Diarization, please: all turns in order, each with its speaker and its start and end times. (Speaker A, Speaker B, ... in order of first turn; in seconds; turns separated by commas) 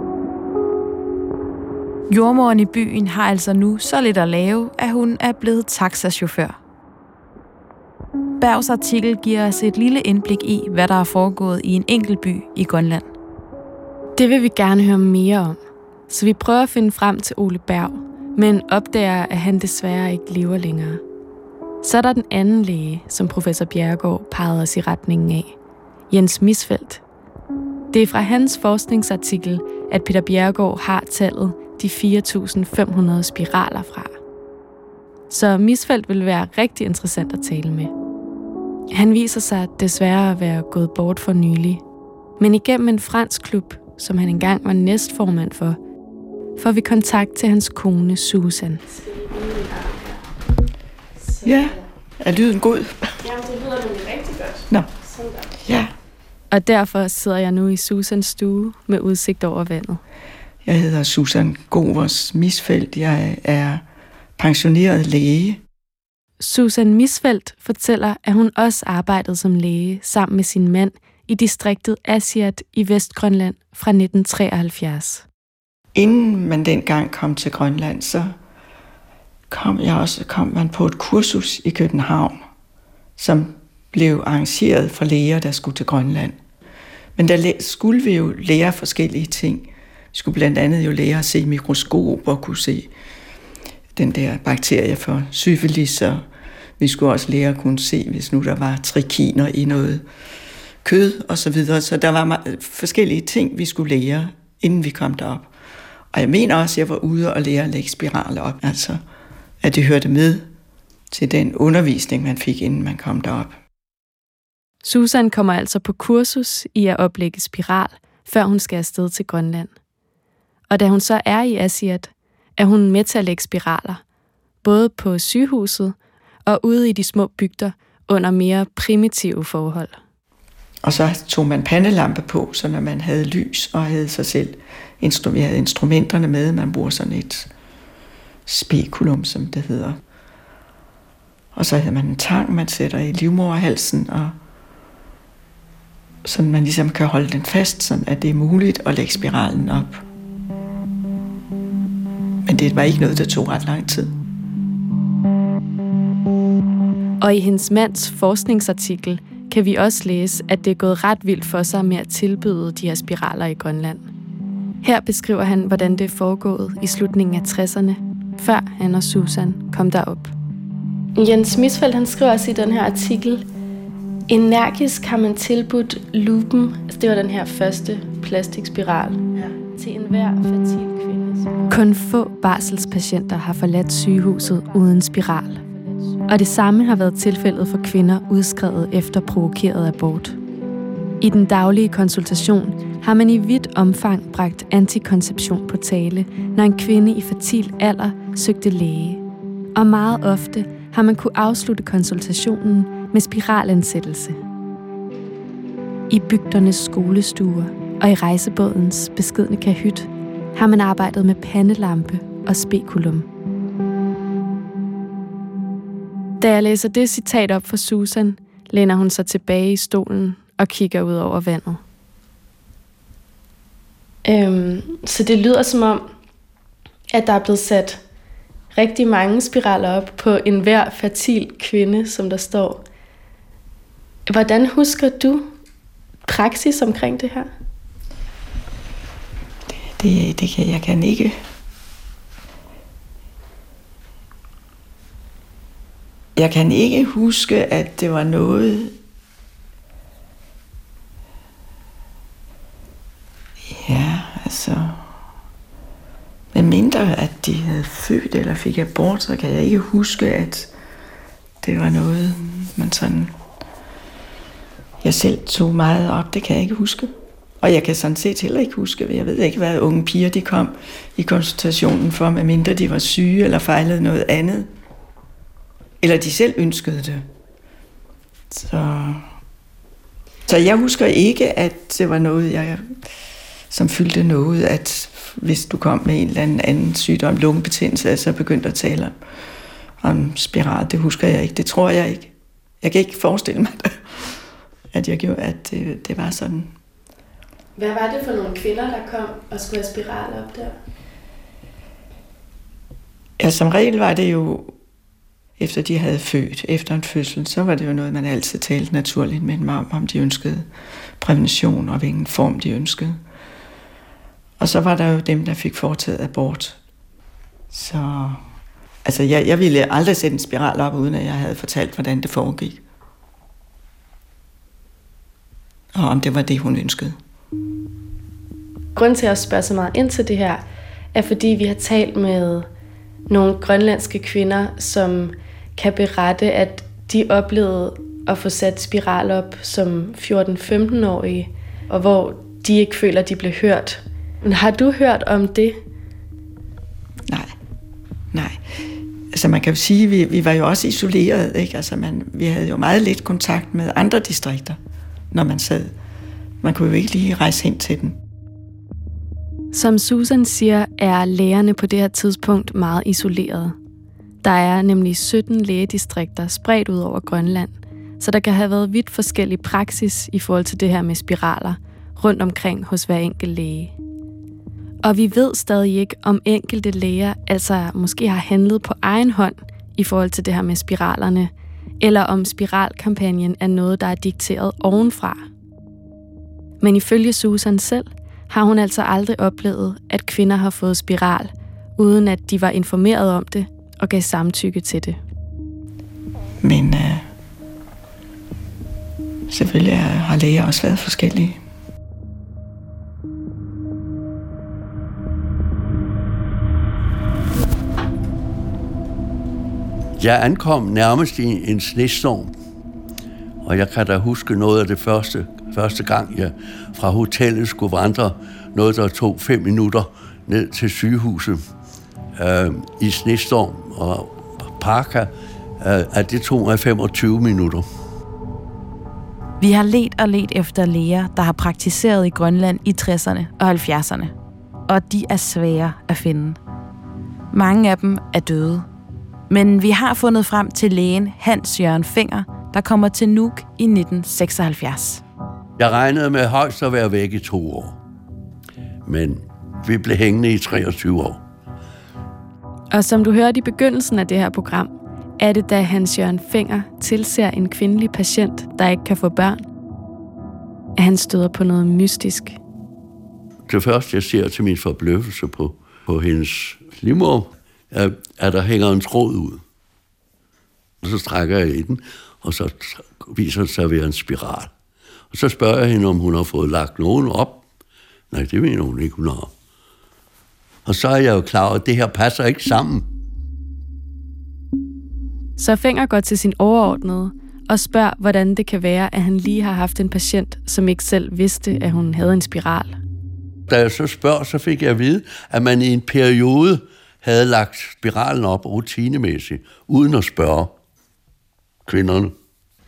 Speaker A: 2.1-6.6, Speaker A: 8.4-13.1, Speaker B: 14.2-15.6, Speaker B: 16.1-21.0, Speaker B: 21.8-25.5, Speaker B: 26.1-27.0, Speaker B: 27.9-34.1, Speaker B: 35.3-37.9, Speaker B: 38.9-41.8, Speaker B: 42.4-45.8, Speaker B: 46.6-50.2, Speaker B: 51.2-51.8, Speaker C: 51.4-53.2, Speaker B: 53.2-55.4, Speaker C: 55.6-55.9, Speaker B: 56.5-60.0, Speaker C: 60.6-63.8, Speaker C: 64.4-65.6, Speaker B: 66.4-75.2, Speaker C: 75.9-78.3, Speaker C: 79.5-82.4, Speaker C: 83.2-86.4, Speaker C: 87.2-92.9, Speaker C: 93.9-96.2, Speaker C: 96.8-100.0, Speaker C: 100.8-105.5, Speaker C: 106.1-109.0, Speaker C: 109.6-110.5, Speaker C: 111.1-113.5, Speaker B: 114.8-119.7, Speaker B: 120.7-124.0, Speaker B: 124.6-125.9, Speaker B: 126.5-130.0, Speaker C: 130.8-137.5, Speaker C: 138.5-140.0, Speaker C: 141.5-144.3, Speaker C: 146.2-150.0, Speaker C: 152.4-154.1, Speaker B: 157.2-164.1, Speaker B: 164.8-170.3, Speaker B: 171.2-173.4, Speaker B: 174.3-179.2, Speaker B: 179.7-185.6, Speaker B: 186.3-190.4, Speaker B: 191.2-199.2, Speaker B: 199.7-204.4, Speaker B: 206.1-213.3, Speaker B: 216.4-221.8, Speaker B: 224.2-226.0, Speaker B: 227.1-228.0, Speaker B: 228.7-232.8, Speaker B: 234.3-235.4, Speaker B: 236.3-237.5, Speaker C: 240.0-241.3, Speaker C: 246.3-248.9, Speaker C: 253.7-255.0, Speaker C: 256.5-260.7, Speaker C: 261.6-263.4, Speaker C: 265.0-274.7, Speaker C: 276.0-277.2, Speaker C: 278.5-279.2, Speaker C: 280.4-282.8, Speaker C: 283.7-289.1, Speaker C: 290.0-294.3, Speaker C: 294.9-296.7, Speaker B: 297.8-300.7, Speaker C: 303.4-304.7, Speaker C: 305.6-310.7, Speaker C: 311.2-313.2, Speaker C: 314.6-316.8, Speaker C: 317.7-318.4, Speaker C: 319.0-322.8, Speaker C: 325.9-327.1, Speaker B: 328.9-332.7, Speaker B: 333.3-345.8, Speaker C: 347.3-347.5, Speaker C: 348.3-348.6, Speaker C: 349.3-354.8, Speaker C: 355.3-355.9, Speaker C: 356.6-358.2, Speaker B: 359.7-363.7, Speaker B: 364.4-373.9, Speaker B: 375.0-385.4, Speaker B: 386.8-395.2, Speaker C: 396.6-397.2, Speaker C: 399.5-401.6, Speaker D: 410.2-412.5, Speaker D: 413.6-421.6, Speaker D: 422.4-427.8, Speaker A: 429.6-434.3, Speaker A: 434.9-436.6, Speaker A: 437.5-438.9, Speaker A: 439.5-445.2, Speaker D: 445.8-448.0, Speaker D: 449.0-451.4, Speaker B: 452.9-459.6, Speaker B: 461.0-462.6, Speaker D: 463.7-469.6, Speaker D: 471.0-474.7, Speaker D: 475.3-477.6, Speaker D: 478.3-479.5, Speaker D: 480.9-483.0, Speaker B: 485.6-493.0, Speaker D: 493.7-500.7, Speaker D: 501.9-502.3